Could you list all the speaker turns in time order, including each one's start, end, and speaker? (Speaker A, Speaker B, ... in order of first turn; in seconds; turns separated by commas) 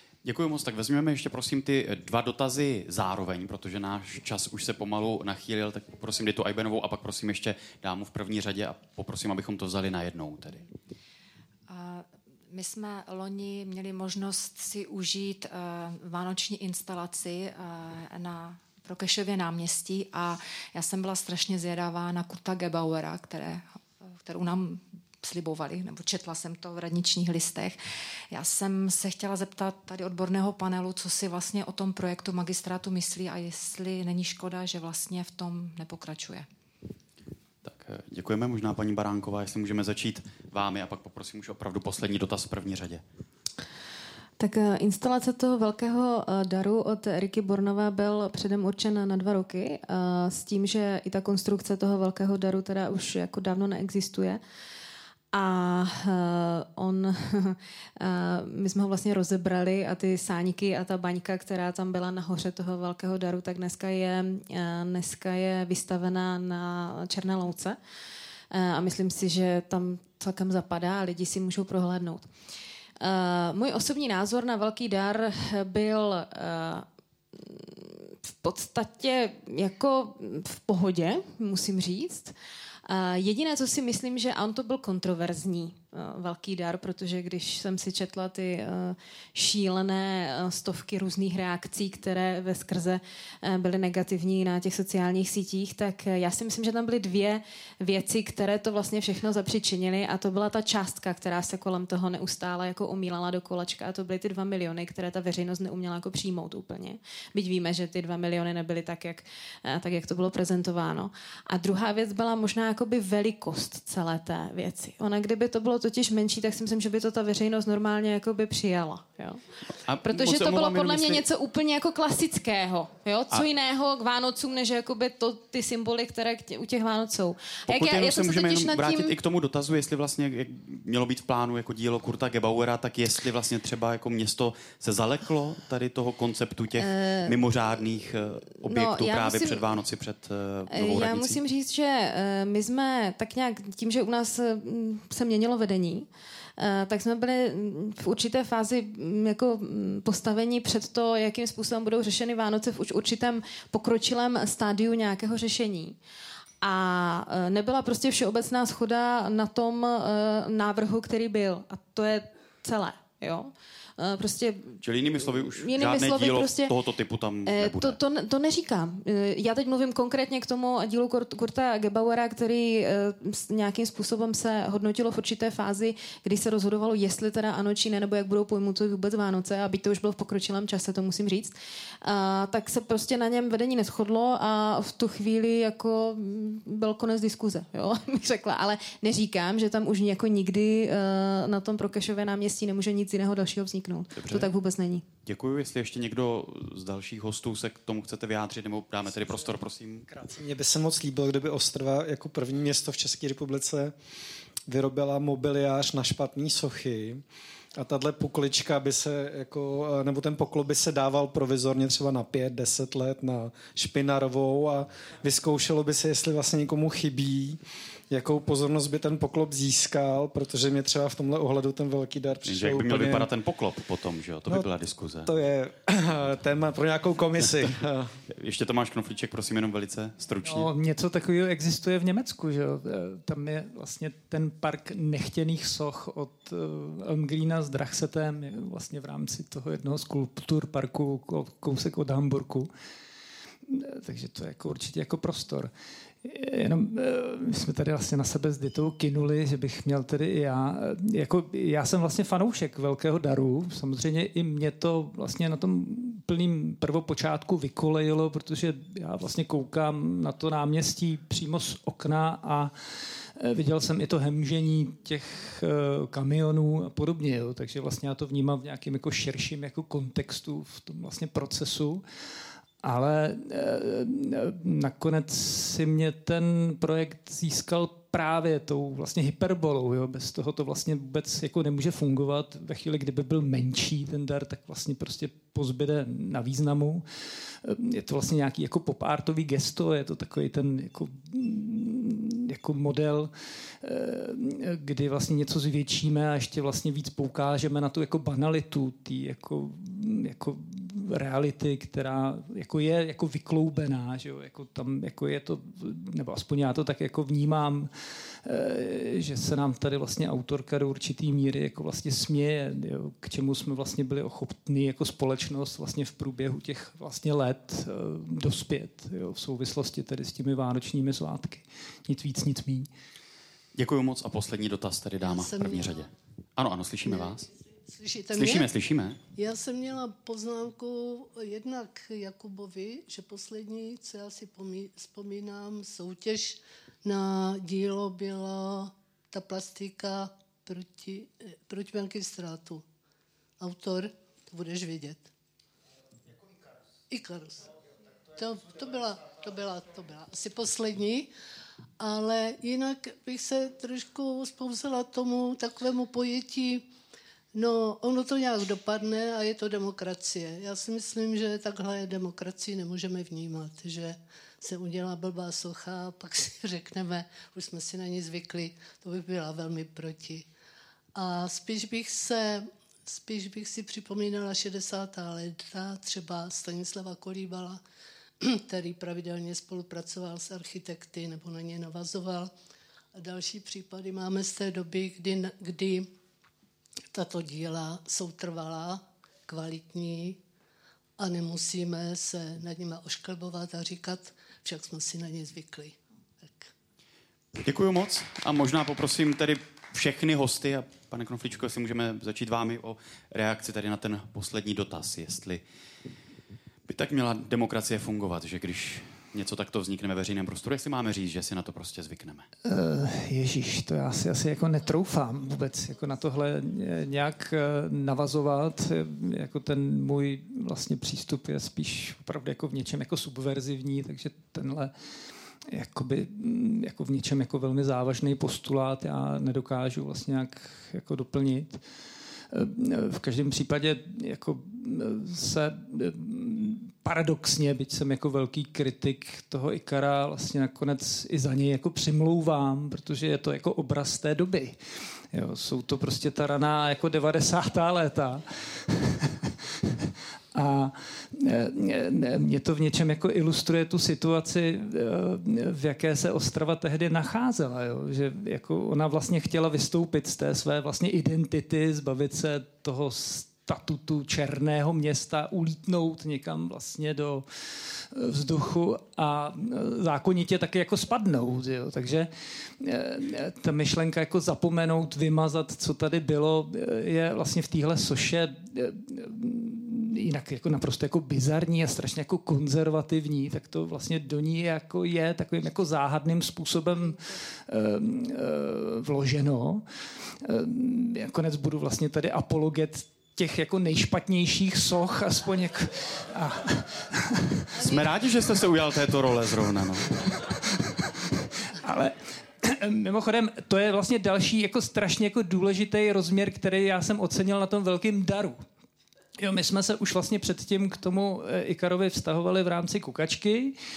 Speaker A: 0.2-10.7, Speaker B: 11.7-27.8, Speaker B: 28.3-36.5, Speaker A: 37.6-43.0, Speaker C: 44.4-54.4, Speaker C: 55.3-67.8, Speaker C: 68.5-72.3, Speaker C: 73.0-82.3, Speaker C: 82.8-119.4, Speaker A: 119.7-121.2, Speaker C: 120.0-129.1, Speaker A: 127.7-141.4, Speaker C: 136.8-137.4, Speaker C: 138.7-139.7, Speaker C: 140.7-146.1, Speaker C: 146.6-155.9, Speaker C: 156.6-166.7, Speaker A: 164.8-168.0, Speaker C: 167.4-195.0, Speaker A: 194.2-194.5, Speaker A: 195.2-200.1, Speaker D: 200.1-203.9, Speaker D: 204.7-207.2, Speaker D: 207.7-223.3, Speaker A: 222.4-225.3, Speaker D: 225.2-228.2, Speaker A: 228.3-230.7, Speaker E: 230.4-242.7, Speaker E: 243.7-245.7, Speaker E: 246.2-262.7, Speaker E: 263.4-272.0, Speaker E: 272.8-287.1, Speaker E: 287.6-307.9, Speaker E: 308.4-322.9, Speaker A: 323.7-327.5, Speaker F: 325.2-326.1, Speaker F: 327.0-328.7, Speaker A: 328.3-329.2, Speaker F: 329.4-342.8, Speaker F: 343.6-345.3, Speaker F: 347.1-347.7, Speaker F: 348.3-351.3, Speaker F: 352.0-356.9, Speaker F: 357.5-370.5, Speaker F: 371.1-377.8, Speaker F: 378.4-382.5, Speaker F: 383.1-386.1, Speaker F: 387.1-390.4, Speaker F: 391.2-396.7, Speaker A: 397.6-405.6, Speaker A: 406.9-412.4, Speaker E: 412.6-424.9, Speaker E: 425.7-431.8, Speaker E: 432.5-444.8, Speaker E: 445.3-472.3, Speaker E: 472.8-489.9, Speaker E: 490.4-497.9, Speaker A: 497.8-500.2, Speaker E: 500.3-508.6, Speaker E: 509.4-513.8